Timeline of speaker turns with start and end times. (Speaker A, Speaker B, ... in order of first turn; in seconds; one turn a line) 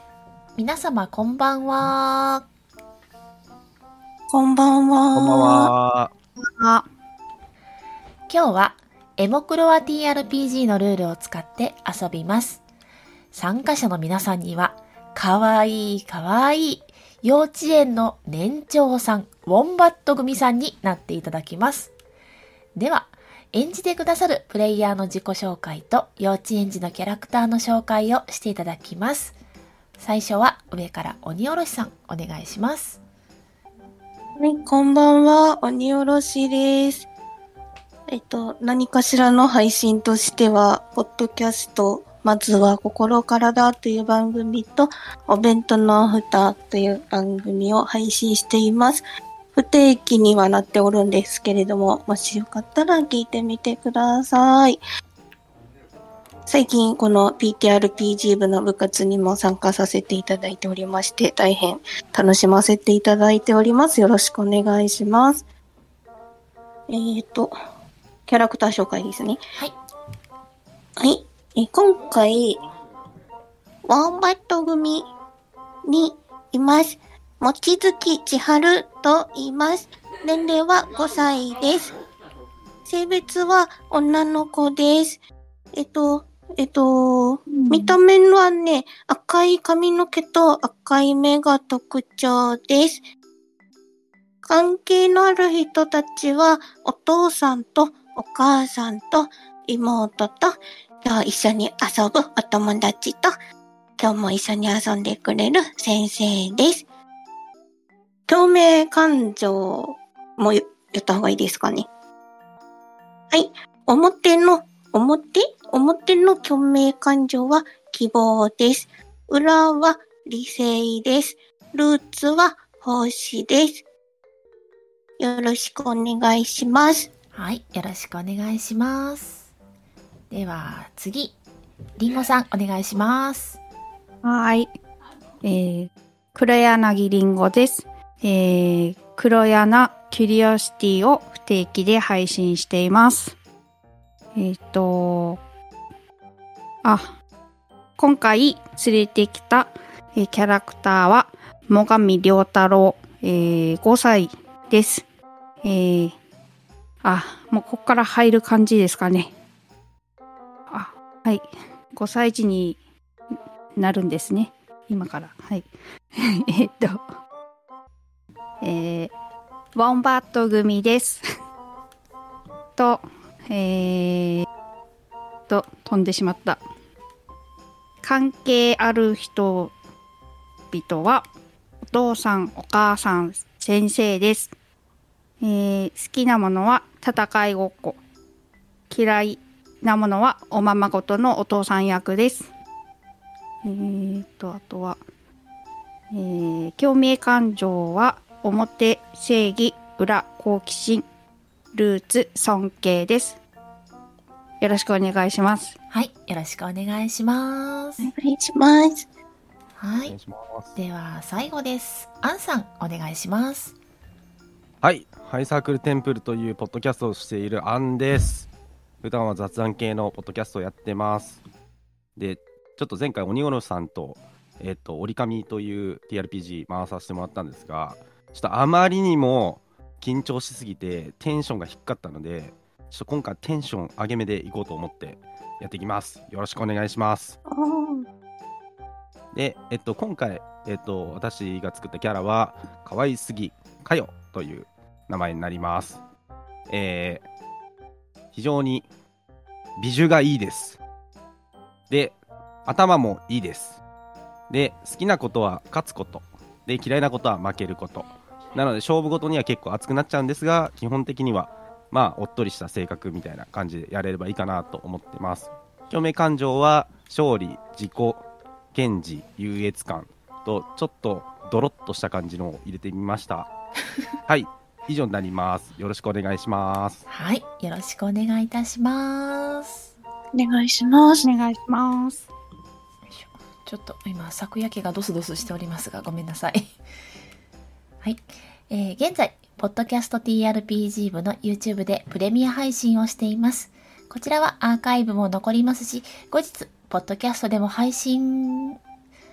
Speaker A: 0.6-2.5
Speaker B: 4.3-5.7
Speaker C: 5.1-6.1
Speaker D: 6.4-6.8
Speaker A: 8.3-12.6
Speaker A: 13.3-21.9
Speaker A: 22.8-29.4
Speaker A: 30.0-33.0
Speaker B: 34.4-37.1
Speaker B: 38.1-49.0
Speaker B: 49.5-54.8
Speaker B: 56.5-65.4
Speaker B: 66.9-67.5
Speaker B: 68.3-69.4
Speaker B: 71.0-72.6
Speaker B: 73.9-75.1
Speaker B: 75.9-82.0
Speaker B: 82.8-85.2
Speaker B: 85.7-93.0
Speaker D: 87.5-88.0
Speaker B: 94.4-103.4
Speaker B: 104.0-106.9
Speaker B: 108.3-111.9
Speaker B: 113.3-123.8
Speaker B: 125.2-127.1
Speaker A: 127.3-129.5
Speaker A: 130.3-131.3
Speaker A: 132.0-133.6
Speaker D: 134.2-134.7
Speaker D: 135.4-143.4
Speaker D: 144.3-145.4
Speaker D: 146.8-147.1
Speaker D: 148.0-155.1
Speaker D: 155.6-156.1
Speaker D: 157.0-159.3
Speaker D: 160.7-162.8
Speaker D: 163.8-167.0
Speaker D: 168.6-169.1
Speaker D: 169.8-171.2
Speaker D: 172.8-174.5
Speaker D: 175.5-176.6
Speaker D: 178.0-179.7
Speaker D: 180.7-181.2
Speaker D: 181.9-184.5
Speaker D: 185.4-188.0
Speaker D: 188.9-192.5
Speaker D: 193.6-195.0
Speaker D: 196.1-201.1
Speaker D: 201.7-203.4
Speaker D: 204.6-205.8
Speaker A: 205.9-208.1
Speaker B: 208.0-209.1
Speaker A: 209.8-210.2
Speaker C: 210.1-210.8
Speaker A: 210.8-213.8
Speaker C: 214.8-218.5
Speaker C: 219.0-221.4
Speaker C: 222.2-237.4
Speaker B: 237.5-238.1
Speaker C: 239.3-246.0
Speaker C: 246.7-247.2
Speaker C: 248.3-248.9
Speaker C: 249.8-250.8
Speaker C: 251.9-253.8
Speaker C: 254.5-273.5
Speaker C: 274.3-277.0
Speaker A: 277.1-279.9
Speaker B: 280.3-281.3
Speaker D: 281.2-282.3
Speaker A: 283.2-286.7
Speaker A: 288.0-298.8